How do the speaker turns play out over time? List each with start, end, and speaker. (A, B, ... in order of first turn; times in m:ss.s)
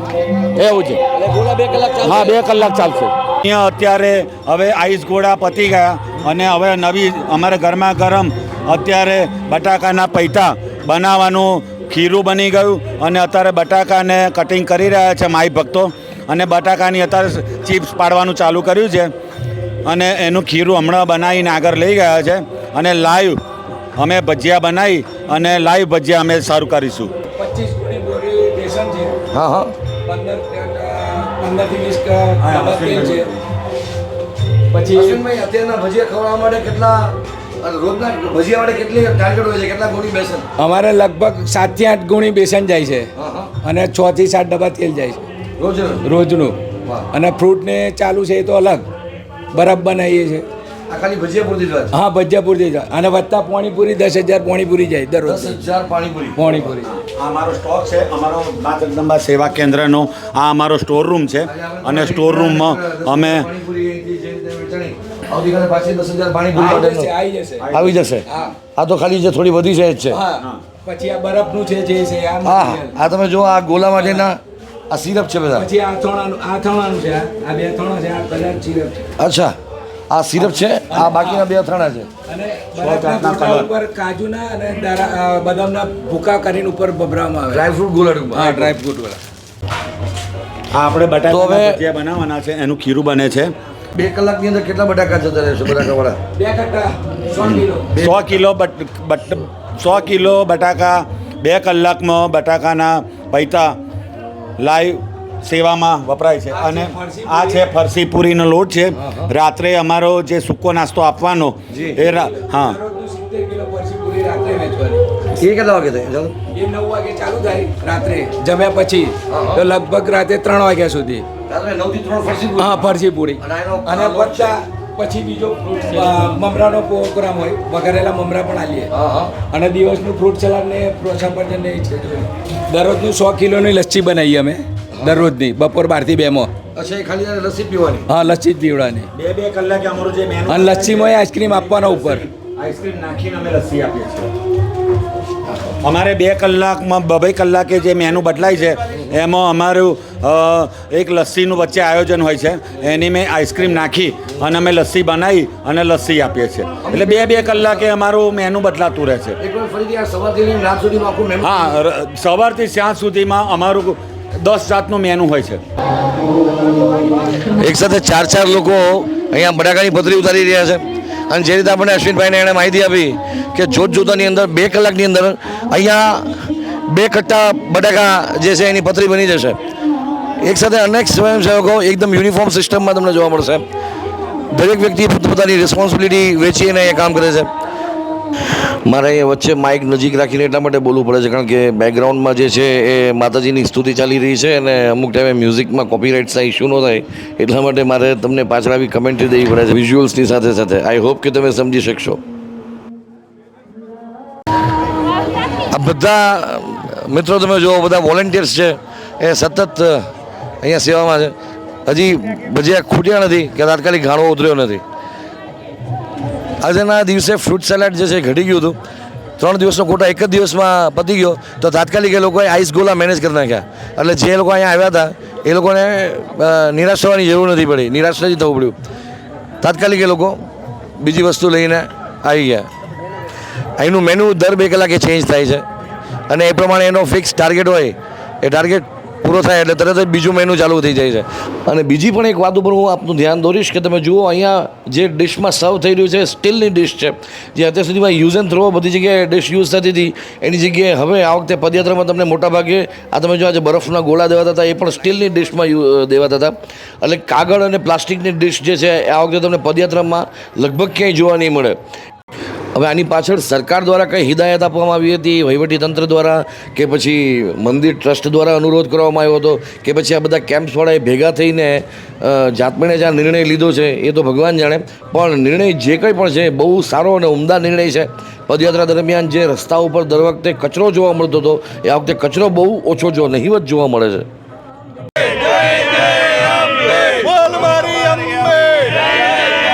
0:00.6-0:01.0 A
0:01.2-0:02.4 B
0:02.0-0:19.1 A
0:19.9-0:23.4 A
0:24.0-0:27.1 A
0:27.4-0:29.2 C
0:29.3-0:29.8 B
0:30.1-0:33.3 C
0:32.4-0:33.4 A
0:34.7-0:35.2 C
0:34.9-0:40.5 B
0:40.6-0:43.1 C
0:43.2-0:43.5 B
0:43.6-0:45.3 C
0:45.6-0:46.1 B
0:46.0-0:46.6 C
0:47.1-0:48.9 C
0:49.5-0:50.5 C
0:50.9-0:51.9 B
0:51.9-0:55.6 C
0:55.2-0:56.5 B
0:56.4-0:56.9 C
0:56.8-1:03.5 A
1:01.4-1:07.1 B
1:06.5-1:08.6 C
1:07.6-1:08.1 A
1:07.7-1:10.2 B
1:10.1-1:12.9 C
1:12.4-1:15.7 B
1:14.0-1:14.3 C
1:15.5-1:19.0 C
1:19.2-1:19.6 B
1:20.1-1:22.1 B
1:20.9-1:21.4 C
1:22.3-1:27.7 C
1:22.8-1:23.7 A
1:27.5-1:28.8 B
1:28.3-1:29.2 C
1:30.7-1:33.5 A
1:31.3-1:31.8 B
1:34.0-1:36.2 B
1:36.3-1:37.9 C
1:37.4-1:43.8 A
1:37.9-1:38.3 B
1:44.6-1:52.8 A
1:46.5-1:47.7 C
1:49.0-1:49.3 B
1:51.7-1:52.0 B
1:52.3-1:55.0 C
1:55.4-1:56.4 B
1:56.5-2:01.3 C
1:59.3-1:59.6 B
2:01.5-2:04.6 B
2:02.6-2:08.9 C
2:08.9-2:09.4 B
2:09.5-2:16.5 C
2:15.0-2:15.3 B
2:16.8-2:18.1 B
2:18.1-2:19.1 C
2:19.1-2:24.3 A
2:20.5-2:22.2 C
2:25.8-2:39.4 A
2:36.8-2:37.8 B
2:39.4-2:41.5 B
2:41.4-2:45.6 A
2:47.6-2:59.6 B
3:00.4-3:03.7 B
3:04.5-3:07.5 B
3:08.8-3:22.2 B
3:25.7-3:30.1 B
3:30.6-3:31.3 B
3:31.9-3:34.8 B
3:36.6-3:38.8 B
3:39.4-3:48.8 B
3:49.6-3:50.4 B
3:51.0-3:52.7 B
3:53.8-3:55.7 B
3:56.3-4:21.8 B
4:22.8-4:44.3 B
4:45.6-4:49.5 B